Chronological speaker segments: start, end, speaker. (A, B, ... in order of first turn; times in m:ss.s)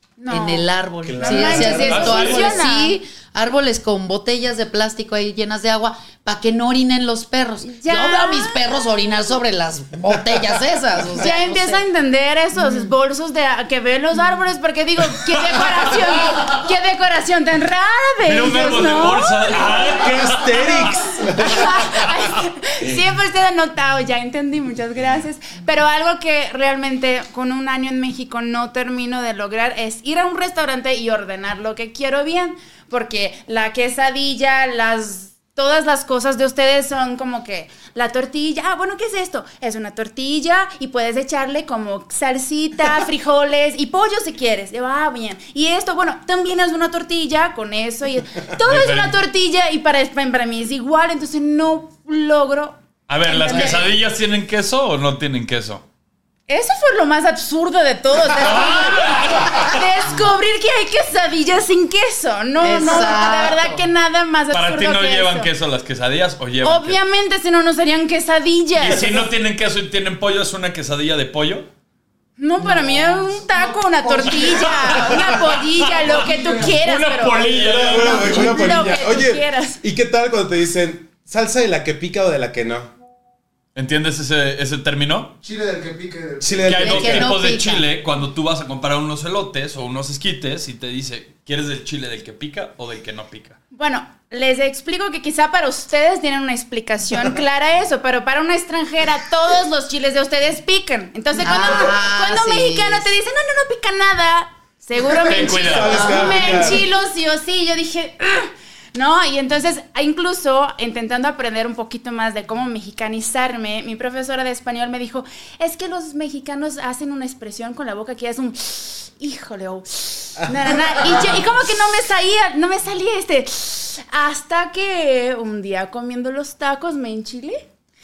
0:00.2-0:03.0 A
0:00.3-0:11.8 B
0:01.0-0:02.4 C
0:01.8-0:02.6 D
0:07.6-0:08.6 A
0:11.2-0:20.0 A
0:12.6-0:12.9 B
0:18.2-0:20.9 D
0:19.8-0:22.1 C
0:20.5-0:53.9 A
0:48.6-0:49.2 D
0:53.1-0:55.8 D
0:53.4-0:53.8 B
0:56.5-1:05.5 A
0:58.4-0:59.8 D
1:02.6-1:03.8 B
1:04.5-1:07.0 D
1:06.6-1:09.2 A
1:08.8-1:11.7 D
1:12.4-1:19.8 A
1:12.6-1:13.0 B
1:13.4-1:15.2 E
1:14.4-1:18.8 D
1:16.0-1:16.8 E
1:17.5-1:22.9 C
1:23.7-1:25.4 D
1:25.4-1:26.8 E
1:26.4-1:27.3 C
1:26.6-1:33.6 D
1:26.8-1:27.8 B
1:33.7-2:07.6 A
1:41.4-1:43.1 B
1:45.1-1:46.0 D
1:45.3-1:46.8 C
1:45.8-1:46.8 B
2:00.4-2:01.4 C